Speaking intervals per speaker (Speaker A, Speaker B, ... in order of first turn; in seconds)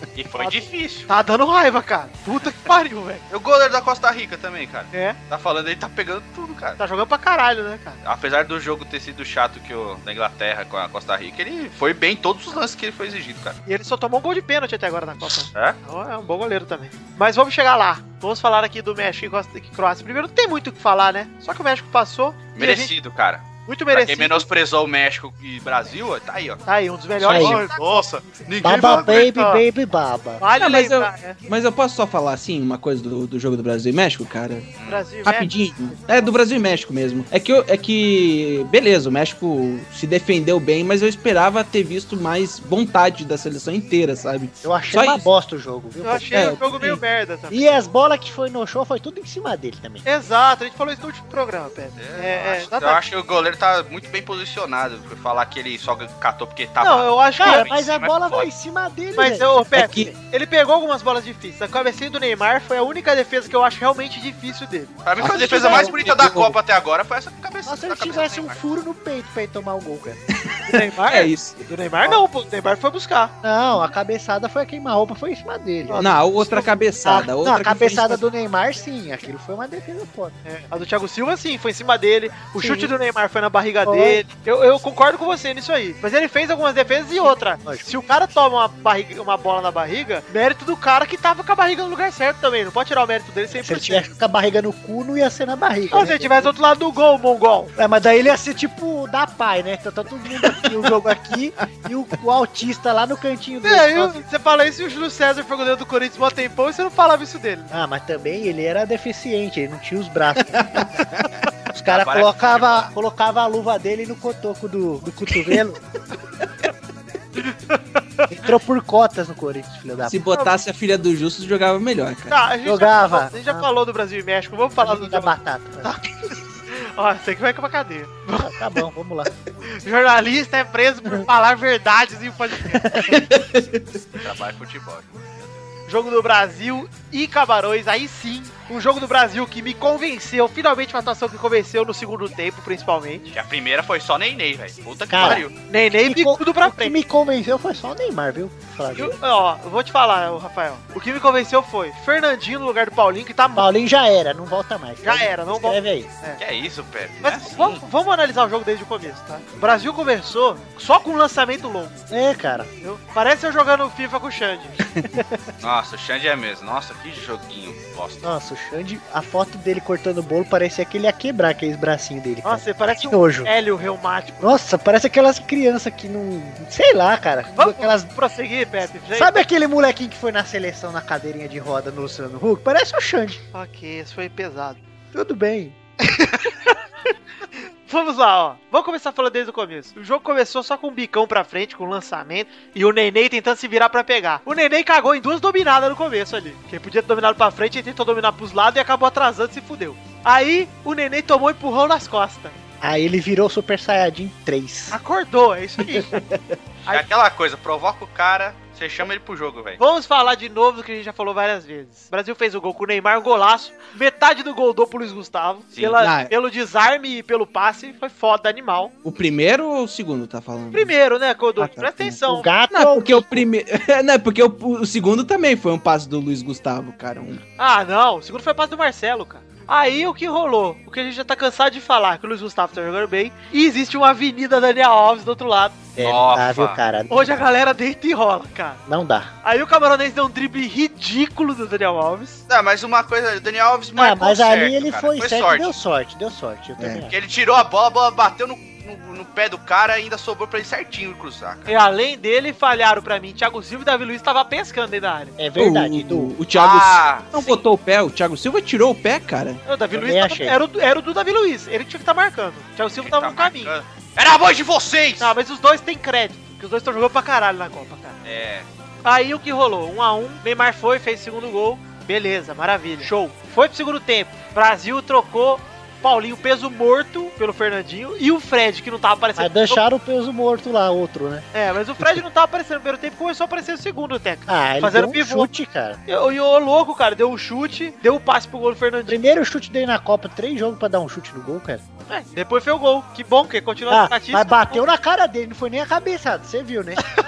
Speaker A: 0.1-1.1, 3.3-6.8, 8.0-13.6, 22.6-26.6, 27.2-29.3, 34.8-35.1, 52.0-58.5, 65.0-68.6, 111.8-112.9, 134.1-135.6, 143.3-145.5, 156.4-157.8, 165.6-168.3, 206.9-209.8, 215.7-216.0, 236.0-236.8, 242.5-245.7, 247.1-251.7, 256.5-257.6, 263.0-265.3, 268.2-268.7
Speaker B: 0.4-3.2, 6.8-8.0, 13.7-22.9, 23.7-24.4, 26.7-28.1, 28.6-29.6, 30.4-31.4, 34.9-35.5, 46.0-47.8, 50.0-53.0, 56.8-57.7, 59.2-65.0, 70.7-73.3, 75.8-76.7, 80.5-94.1, 95.9-97.7, 103.6-107.7, 117.4-118.4, 122.3-128.5, 129.8-133.3, 135.9-143.3, 145.2-146.9, 148.9-153.7, 155.0-156.4, 157.2-162.1, 162.8-164.8, 172.4-174.6, 177.5-179.4, 183.5-184.8, 186.1-186.8, 187.5-202.6, 204.9-206.2, 209.8-218.9, 220.7-222.5, 227.6-235.8, 237.1-238.8, 239.4-242.4, 251.7-255.3, 259.7-263.7, 265.2-268.2, 269.1-279.8, 281.5-285.5, 286.1-289.2, 292.1-294.8
Speaker C: 27.2-27.7, 28.6-30.4, 44.6-46.6, 47.5-50.0, 57.4-60.0, 65.2-66.0, 67.7-70.2, 73.4-76.0, 77.0-80.4, 82.6-82.9, 83.8-84.2, 87.2-87.9, 93.6-96.5, 97.8-104.2, 107.7-110.9, 111.7-115.8, 118.3-120.3, 122.7-123.7, 124.8-126.0, 128.4-129.3, 132.8-133.2, 145.1-149.2, 153.5-156.1, 162.1-162.7, 168.2-173.5, 174.4-178.1, 179.1-183.4, 185.1-185.8, 202.8-205.0, 222.3-223.5, 236.0-237.4, 238.9-239.3, 244.0-247.1, 255.4-256.3, 259.9-260.6, 279.4-281.5, 284.5-286.0, 289.1-291.8, 293.9-297.0
Speaker D: 30.6-34.7, 35.2-45.3, 46.3-47.0, 59.8-60.1, 65.2-66.6, 70.5-71.6, 76.0-78.2, 100.4-100.8, 110.5-110.9, 120.0-122.4, 133.1-134.0, 164.9-165.2, 206.0-206.6, 216.0-216.3, 219.0-220.9, 221.6-222.2, 222.7-227.4, 246.8-247.1, 255.6-259.6